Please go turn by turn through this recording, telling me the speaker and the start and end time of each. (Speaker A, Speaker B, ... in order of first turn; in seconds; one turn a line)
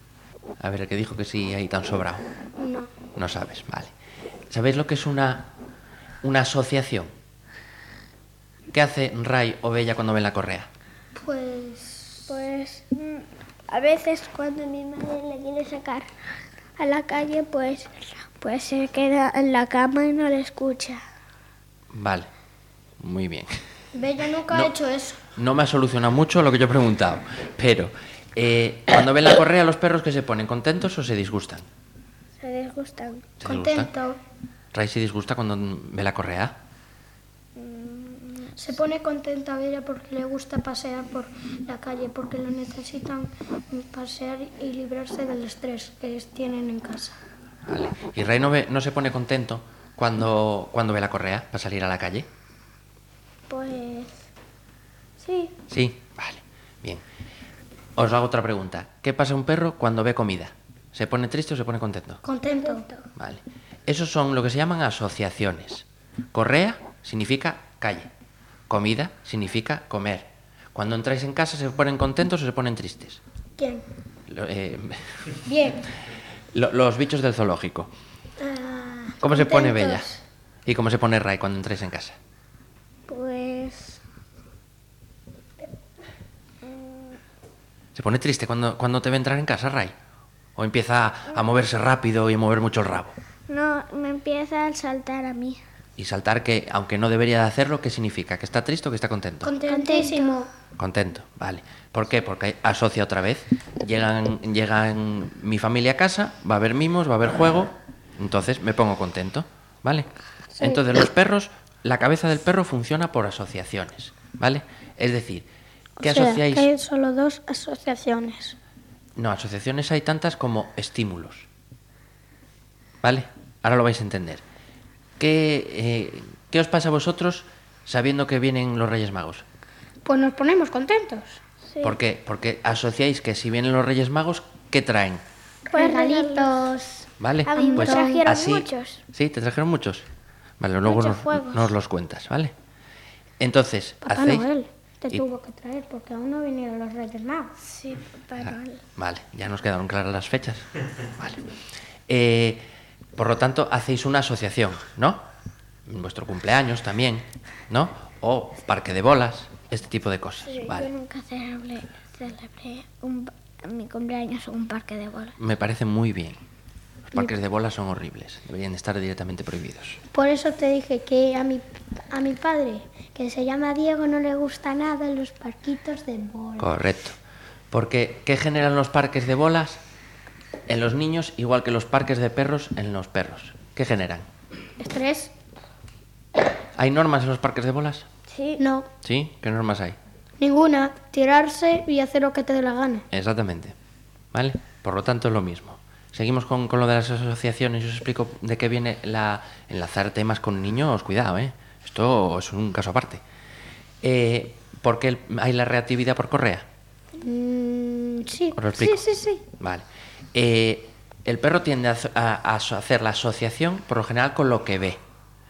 Speaker A: 0.6-2.2
Speaker B: 2.6-2.9
Speaker A: 3.1-3.9
Speaker A: 4.5-5.5
Speaker A: 6.2-7.1
Speaker A: 8.7-10.7
Speaker B: 11.1-12.3
Speaker C: 12.3-16.1
Speaker C: 16.8-21.0
Speaker A: 21.9-22.3
Speaker A: 23.0-23.6
Speaker B: 23.9-25.2
Speaker A: 25.3-31.6
Speaker C: 32.4-33.3
Speaker A: 33.4-33.9
Speaker B: 33.4-34.2
Speaker A: 34.7-36.5
Speaker C: 37.5-38.5
Speaker B: 38.6-47.2
Speaker A: 47.6-52.3
Speaker C: 53.5-54.3
Speaker C: 55.2-55.5
Speaker A: 55.7-57.0
Speaker A: 58.0-62.2
Speaker B: 62.2-62.8
Speaker C: 62.6-63.0
Speaker A: 63.1-68.1
Speaker A: 68.7-73.2
Speaker B: 73.6-73.8
Speaker A: 74.3-75.2
Speaker B: 75.4-75.9
Speaker A: 76.5-77.9
Speaker B: 78.4-80.2
Speaker A: 79.2-80.1
Speaker A: 80.7-82.2
Speaker C: 83.1-84.0
Speaker C: 86.6-87.2
Speaker A: 87.9-89.9
Speaker A: 90.5-93.2
Speaker C: 93.5-95.6
Speaker A: 96.0-99.5
Speaker B: 99.4-100.5
Speaker C: 99.7-100.4
Speaker A: 100.8-110.1
Speaker B: 110.5-110.8
Speaker A: 110.6-115.5
Speaker A: 116.0-116.7
Speaker B: 116.0-118.6
Speaker A: 119.2-121.5
Speaker A: 123.0-124.4
Speaker A: 125.2-129.4
Speaker B: 130.0-131.4
Speaker C: 131.7-131.9
Speaker A: 131.8-135.2
Speaker B: 135.7-138.3
Speaker C: 135.7-136.7
Speaker A: 137.2-140.1
Speaker C: 137.4-139.0
Speaker A: 140.6-142.5
Speaker C: 140.8-141.7
Speaker A: 143.4-144.5
Speaker B: 144.0-147.5
Speaker C: 147.6-148.8
Speaker A: 148.5-151.5
Speaker A: 152.1-152.6
Speaker A: 153.2-155.2
Speaker A: 155.8-160.9
Speaker C: 160.5-165.3
Speaker A: 165.4-166.4
Speaker A: 167.1-170.0
Speaker B: 170.1-176.7
Speaker A: 176.6-177.2
Speaker A: 177.7-179.8
Speaker A: 180.7-184.3
Speaker B: 184.8-185.3
Speaker A: 186.8-188.1
Speaker C: 188.3-188.6
Speaker B: 188.6-188.9
Speaker A: 189.0-190.0
Speaker B: 190.4-193.1
Speaker A: 193.1-193.7
Speaker A: 194.3-203.2
Speaker A: 204.0-206.7
Speaker B: 207.2-209.4
Speaker A: 208.5-209.0
Speaker A: 209.6-215.0